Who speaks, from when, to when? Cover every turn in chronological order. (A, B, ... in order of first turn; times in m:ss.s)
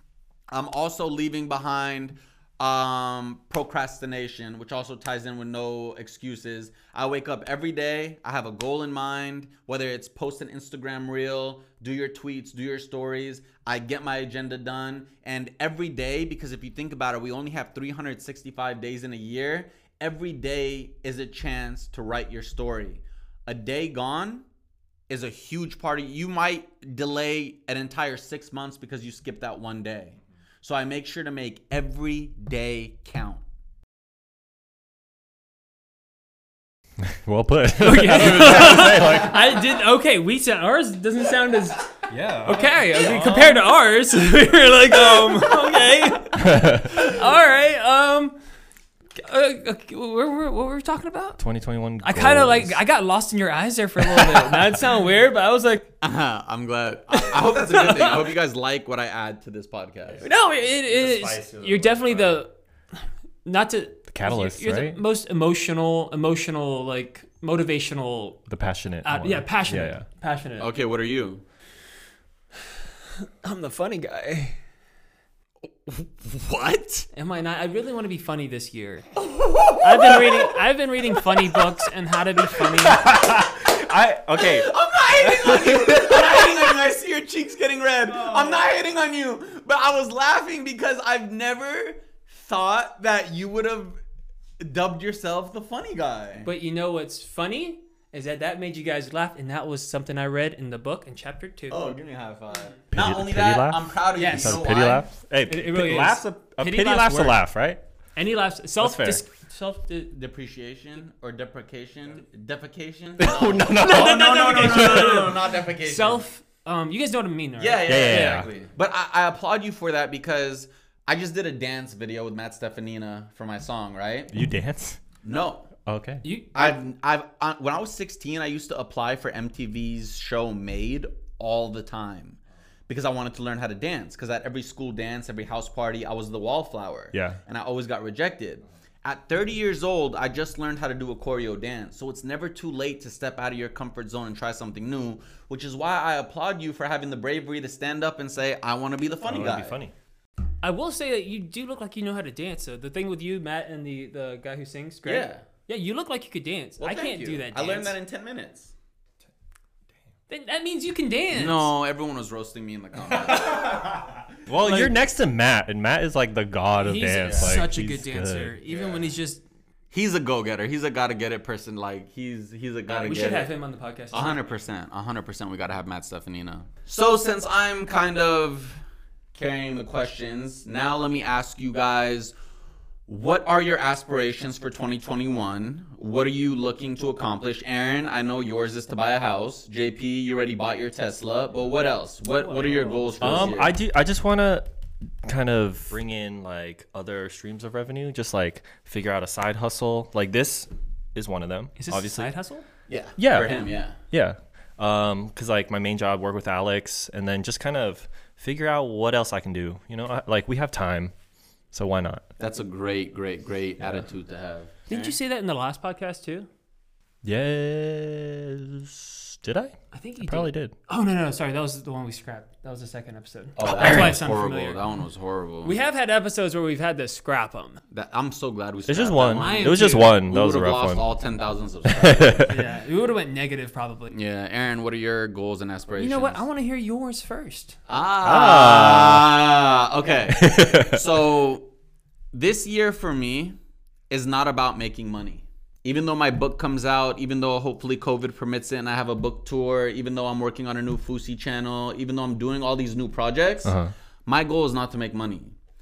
0:00.5-0:24.5 A
0:25.1-0:33.4 A
0:37.0-0:39.5 B
0:37.8-0:41.9 C
0:42.1-0:43.6 B
0:42.4-0:48.4 C
0:46.4-0:47.0 B
0:49.2-0:51.4 C
0:51.4-0:52.8 B
0:52.0-0:55.9 C
0:54.1-0:54.6 B
0:56.0-1:00.3 A
0:57.1-0:58.3 C
1:00.1-1:02.4 B
1:00.2-1:02.5 C
1:03.4-1:08.4 C
1:04.1-1:05.0 B
1:08.5-1:10.0 B
1:09.0-1:10.7 C
1:10.6-1:11.4 A
1:13.2-1:14.6 C
1:15.9-1:17.1 A
1:17.1-1:19.2 C
1:19.2-1:20.6 A
1:19.8-1:23.1 C
1:22.6-1:26.5 B
1:24.3-1:34.0 A
1:34.6-1:36.5 A
1:36.4-1:41.8 C
1:41.7-1:45.1 A
1:43.0-1:47.8 B
1:44.2-1:44.7 C
1:45.5-1:47.4 C
1:48.2-1:50.1 C
1:48.8-1:49.2 B
1:50.1-1:56.2 A
1:53.2-1:55.2 B
1:53.5-1:58.4 C
1:57.6-2:04.3 A
1:57.9-1:58.5 B
2:04.3-2:05.0 B
2:05.2-2:05.7 A
2:05.9-2:06.2 B
2:06.2-2:06.8 C
2:06.5-2:29.8 A
2:17.1-2:17.4 B
2:29.2-2:29.9 B
2:30.6-2:38.0 C
2:35.0-2:35.4 A
2:36.8-2:38.7 A
2:40.3-2:41.7 C
2:41.3-2:44.2 A
2:44.5-2:48.6 B
2:44.6-2:45.0 C
2:46.8-2:49.4 C
2:48.7-2:49.1 A
2:49.9-2:53.5 A
2:52.9-2:54.4 C
2:54.1-2:58.8 A
2:59.4-3:02.3 A
3:03.1-3:13.7 A
3:12.4-3:13.5 C
3:13.2-3:14.7 B
3:15.2-3:22.3 B
3:21.8-3:22.6 C
3:22.9-3:24.0 A
3:23.2-3:31.1 B
3:31.7-3:32.3 B
3:32.4-3:35.1 A
3:34.9-3:36.5 C
3:37.2-3:40.7 B
3:39.9-3:44.8 C
3:43.6-3:45.8 A
3:43.8-3:44.2 B
3:45.6-3:47.8 C
3:47.9-3:52.6 A
3:48.9-3:51.1 B
3:49.4-3:50.1 C
3:51.9-3:52.6 B
3:52.4-3:54.1 C
3:54.1-3:56.4 A
3:56.0-3:57.8 C
3:57.9-4:01.6 A
3:58.2-3:59.3 B
4:00.3-4:01.0 B
4:02.3-4:03.6 A
4:04.1-4:15.5 A
4:13.6-4:13.9 B